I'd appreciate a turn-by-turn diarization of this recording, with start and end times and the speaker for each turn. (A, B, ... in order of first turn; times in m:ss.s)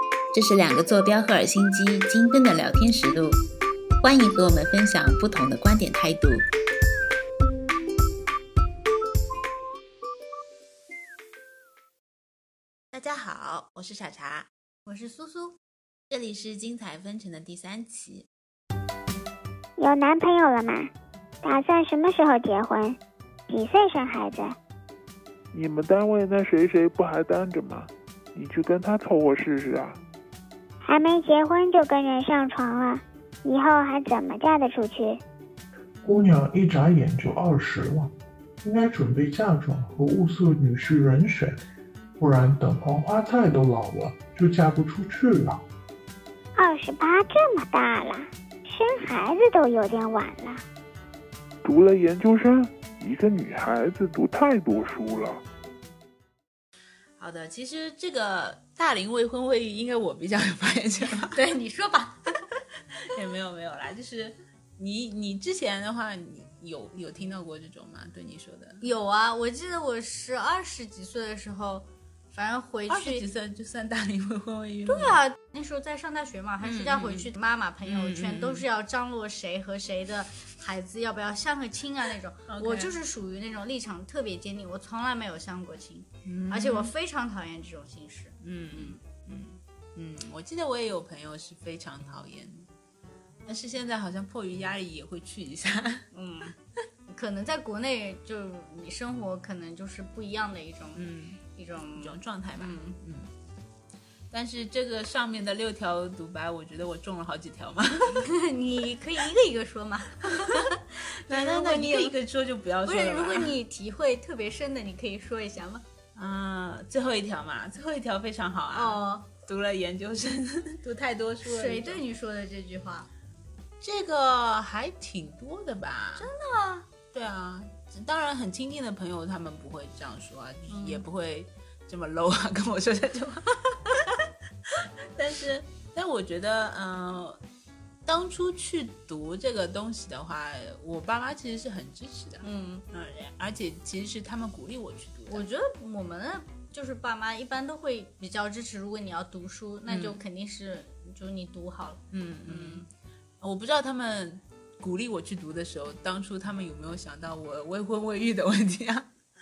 0:00.3-0:03.4 A
0:04.0-0:06.4 A
0:12.9-0:14.5 A
0:14.9-0:15.6 B
0:16.1-0:18.3 A
0:19.8-0:20.9 C
0:21.4-0:23.0 C
0:23.5-0:24.6 C
0:25.5-0:30.0 D
0:30.8-0:35.2 C
0:36.0-0:38.1 E
0:38.6-0:41.6 E
0:42.2-0:45.6 E
0:46.6-0:50.6 C
0:51.6-0:55.4 D
0:57.2-1:01.4 A
1:01.2-1:02.5 B
1:03.0-1:08.8 A
1:08.8-1:13.2 B
1:12.9-1:15.2 A
1:14.9-1:29.0 B
1:16.6-1:17.3 A
1:17.8-1:18.6 A
1:22.5-1:23.0 A
1:26.2-1:26.9 A
1:28.4-1:32.7 A
1:33.4-1:36.1 A
1:36.1-1:36.6 B
1:37.1-1:43.0 B
1:41.0-1:41.4 A
1:42.0-1:43.3 A
1:44.3-1:48.3 A
1:48.1-1:52.2 B
1:50.3-1:50.7 A
1:51.2-1:53.6 A
1:52.8-1:55.8 B
1:56.2-2:02.0 A
1:58.7-1:59.3 B
2:01.4-2:03.1 B
2:03.8-2:06.3 A
2:06.2-2:06.9 B
2:07.1-2:14.1 A
2:10.7-2:11.0 B
2:14.7-2:17.4 A
2:18.0-2:25.4 A
2:22.4-2:22.8 B
2:25.3-2:32.9 B
2:29.9-2:30.2 A
2:32.1-2:32.9 A
2:33.4-2:39.1 A